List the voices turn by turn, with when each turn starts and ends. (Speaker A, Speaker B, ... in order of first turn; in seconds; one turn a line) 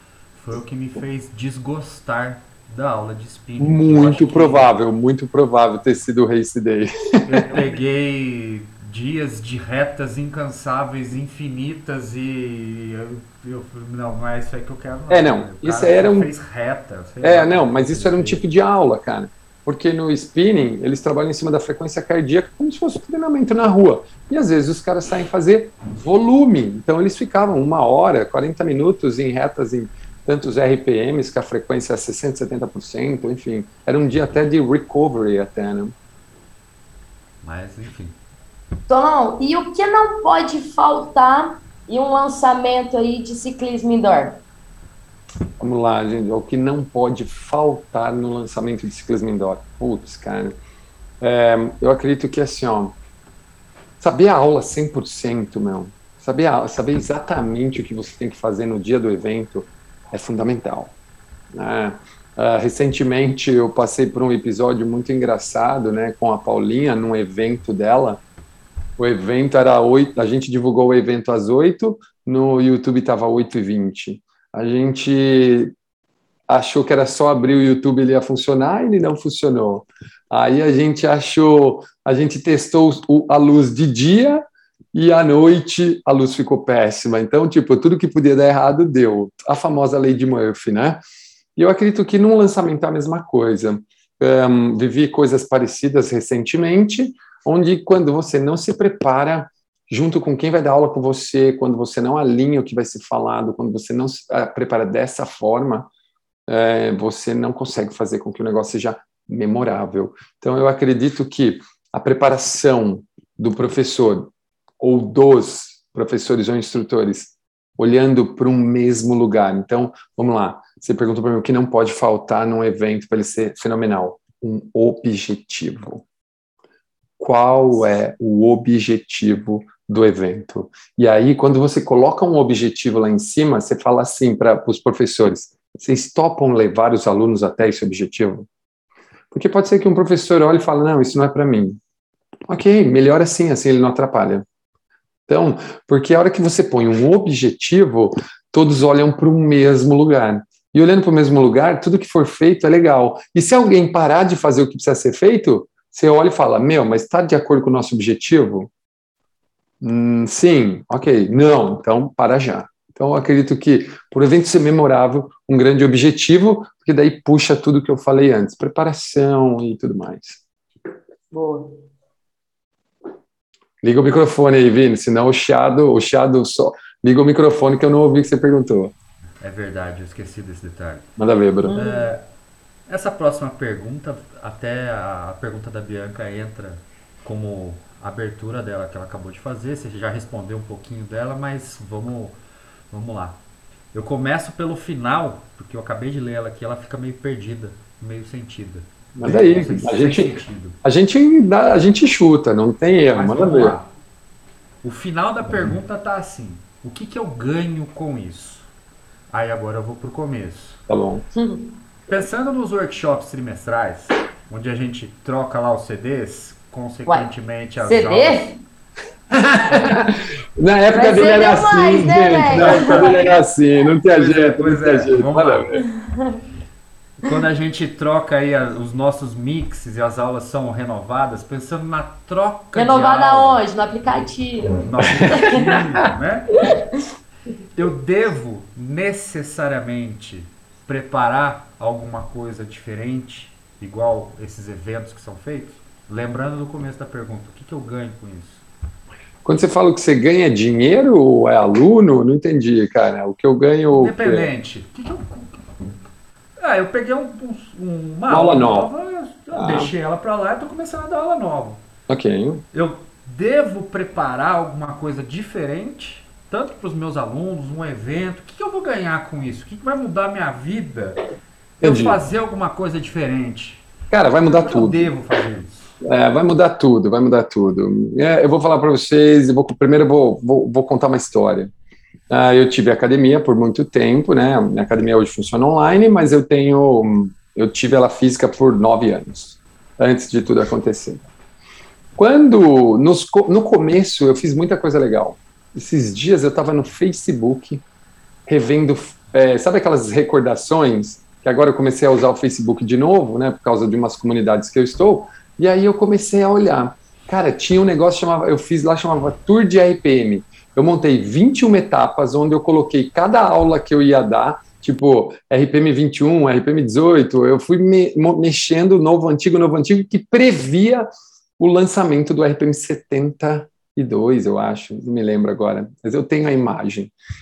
Speaker A: 0.3-4.7
Speaker B: 3.6-7.6
Speaker A: 7.3-18.4
Speaker B: 15.1-16.3
Speaker B: 17.2-35.9
Speaker A: 37.4-38.2
Speaker C: 38.9-44.4
Speaker B: 45.6-50.6
Speaker B: 51.2-53.0
Speaker B: 54.0-60.9
Speaker B: 61.5-68.2
Speaker B: 69.0-75.7
Speaker B: 76.5-91.0
Speaker B: 91.6-105.9
Speaker B: 106.5-126.0
Speaker B: 127.2-138.5
Speaker B: 139.3-141.8
Speaker B: 142.5-144.4
Speaker B: 145.3-158.7
Speaker B: 159.8-170.4
Speaker C: 171.3-171.8
Speaker B: 173.8-178.9
Speaker A: 179.4-181.1
Speaker B: 181.2-181.8
Speaker C: 181.6-182.1
Speaker A: 181.7-182.2
Speaker A: 182.9-192.4
Speaker A: 192.9-193.4
Speaker A: 193.9-200.8
Speaker B: 199.2-203.8
Speaker A: 203.1-203.9
Speaker A: 204.8-208.7
Speaker A: 209.3-210.8
Speaker B: 210.9-211.2
Speaker C: 211.3-211.8
Speaker A: 212.1-218.5
Speaker C: 217.8-218.6
Speaker B: 219.5-225.8
Speaker C: 220.9-223.4
Speaker A: 222.5-223.3
Speaker A: 223.9-225.7
Speaker C: 225.9-226.4
Speaker A: 227.2-233.6
Speaker C: 232.7-235.8
Speaker A: 234.7-236.7
Speaker B: 235.0-235.3
Speaker A: 237.7-248.6
Speaker B: 249.4-254.5
Speaker A: 253.9-255.9
Speaker A: 256.6-261.8
Speaker B: 258.3-258.9
Speaker B: 259.5-259.9
Speaker B: 262.1-262.6
Speaker A: 262.7-271.2
Speaker B: 271.8-272.2
Speaker A: 271.8-273.9
Speaker B: 274.1-275.0
Speaker A: 274.4-275.9
Speaker B: 276.0-281.7
Speaker B: 282.3-291.3
Speaker B: 292.1-297.8
Speaker B: 298.4-321.1
Speaker B: 321.6-327.1